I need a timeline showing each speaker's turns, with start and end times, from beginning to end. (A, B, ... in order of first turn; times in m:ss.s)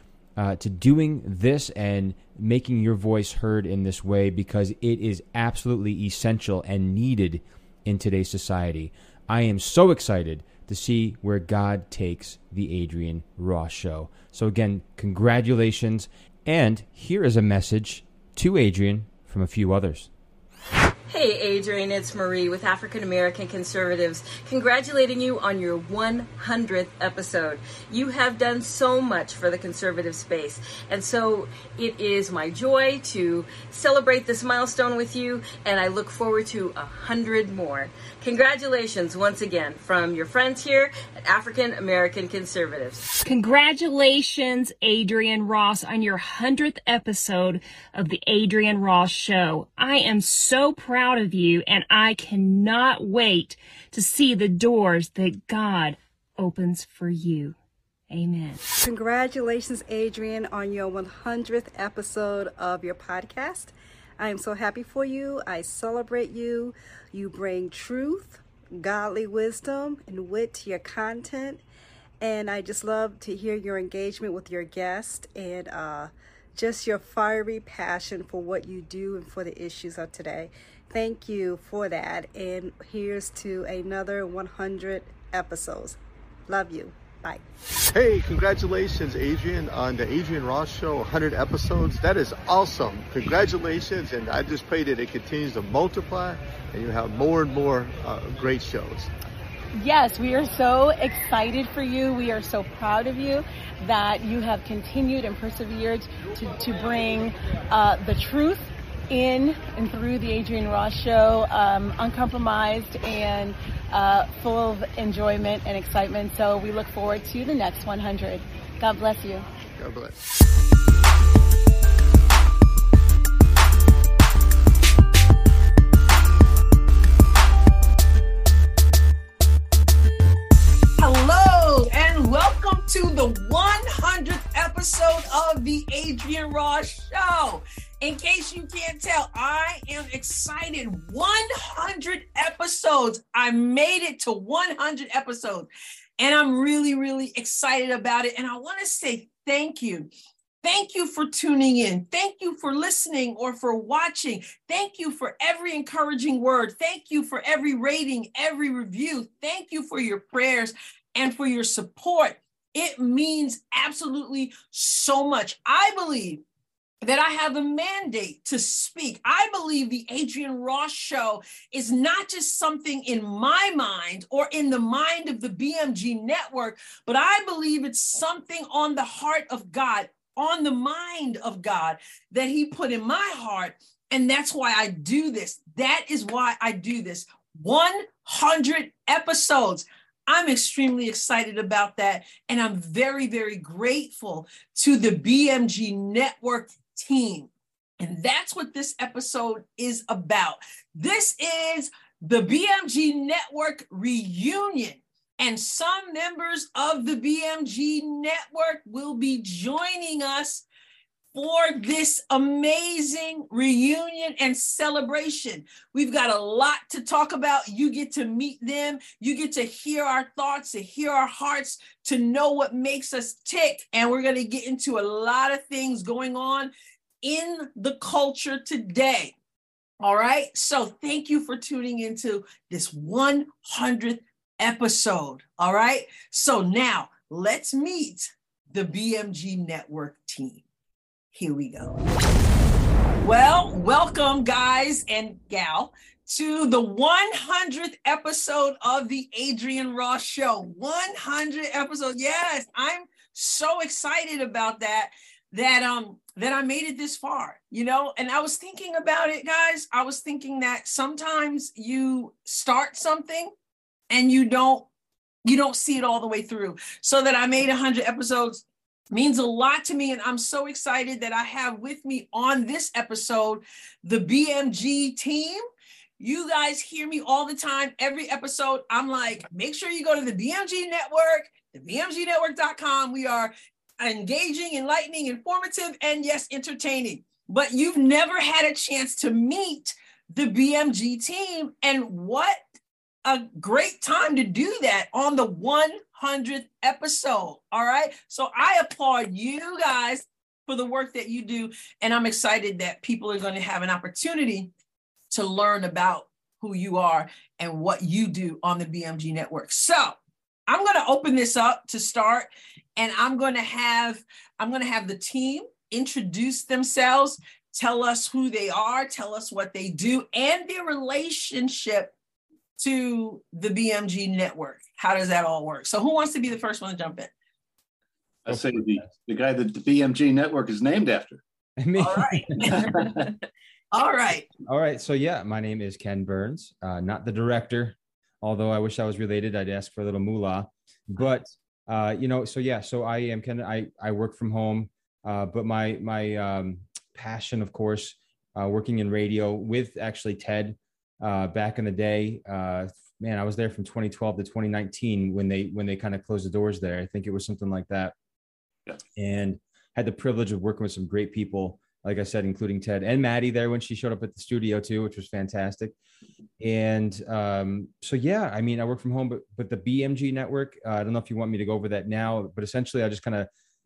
0:00.4-0:20.1 A
0:21.1-0:43.1 B
0:43.2-0:57.6 C
0:58.1-0:58.6 C
0:58.8-1:11.6 D
1:12.2-1:26.0 D
1:26.5-1:27.4 D
1:27.9-1:39.1 E
1:39.8-1:59.5 F
1:59.8-2:00.2 E
2:11.0-2:25.7 G
2:26.2-2:30.1 G
2:30.6-2:46.4 G
2:47.0-3:30.7 G
3:31.3-3:46.7 G
3:47.2-3:49.4 G
3:50.0-4:00.6 G
4:01.3-4:02.0 G
4:03.2-4:23.5 G
4:24.1-4:24.9 G
4:25.5-4:35.6 G
4:36.2-4:52.6 G
4:53.3-5:04.7 G
5:05.3-5:10.2 G
5:10.7-5:22.1 G
5:22.8-5:27.3 G
5:28.5-5:31.4 H
5:28.5-5:29.1 A
5:31.8-5:32.9 A
5:32.0-5:32.9 G
5:32.7-5:33.3 H
5:33.9-5:34.5 G
5:34.7-5:58.2 A
5:59.2-6:06.0 A
6:06.6-6:13.5 A